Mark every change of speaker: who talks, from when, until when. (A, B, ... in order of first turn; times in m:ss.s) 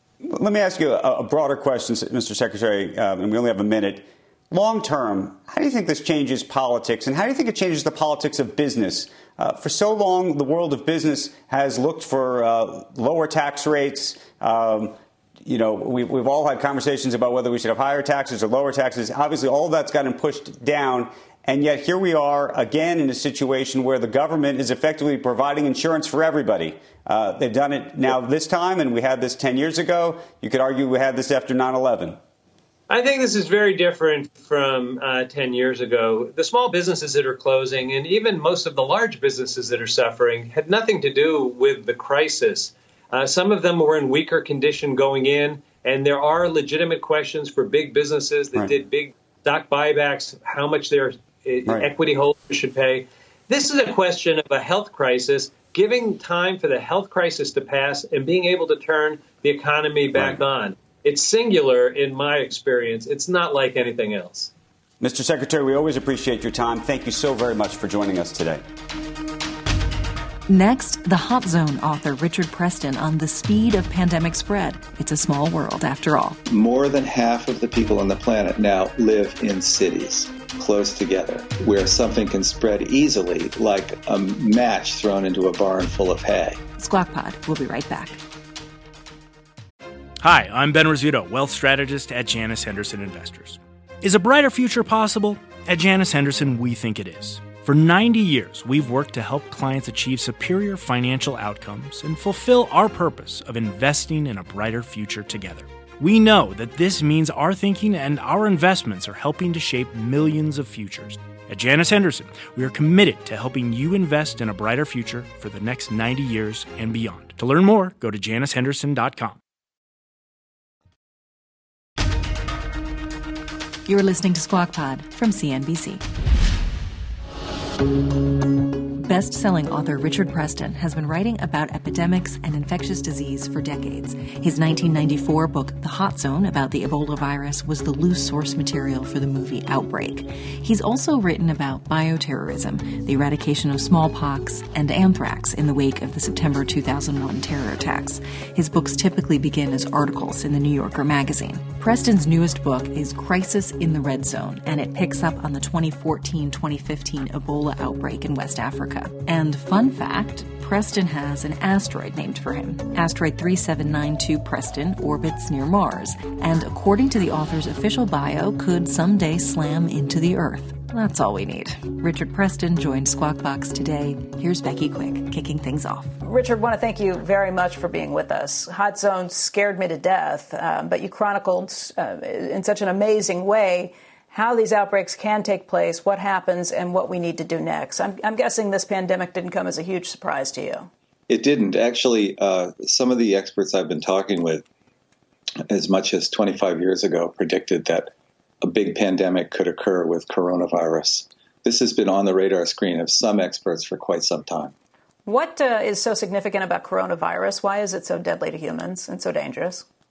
0:00.2-0:32.2 A
0:32.9-1:04.5 B
1:00.1-1:00.4 A
1:05.0-1:08.6 A
1:10.5-1:16.4 C
1:16.5-1:26.6 D
1:26.8-1:28.2 C
1:30.2-1:59.4 E
2:03.8-2:06.0 C
2:09.0-2:56.1 C
2:56.2-3:10.9 F
3:11.3-3:14.6 D
3:15.7-3:18.1 D
3:18.6-3:24.7 D
3:25.2-3:29.8 F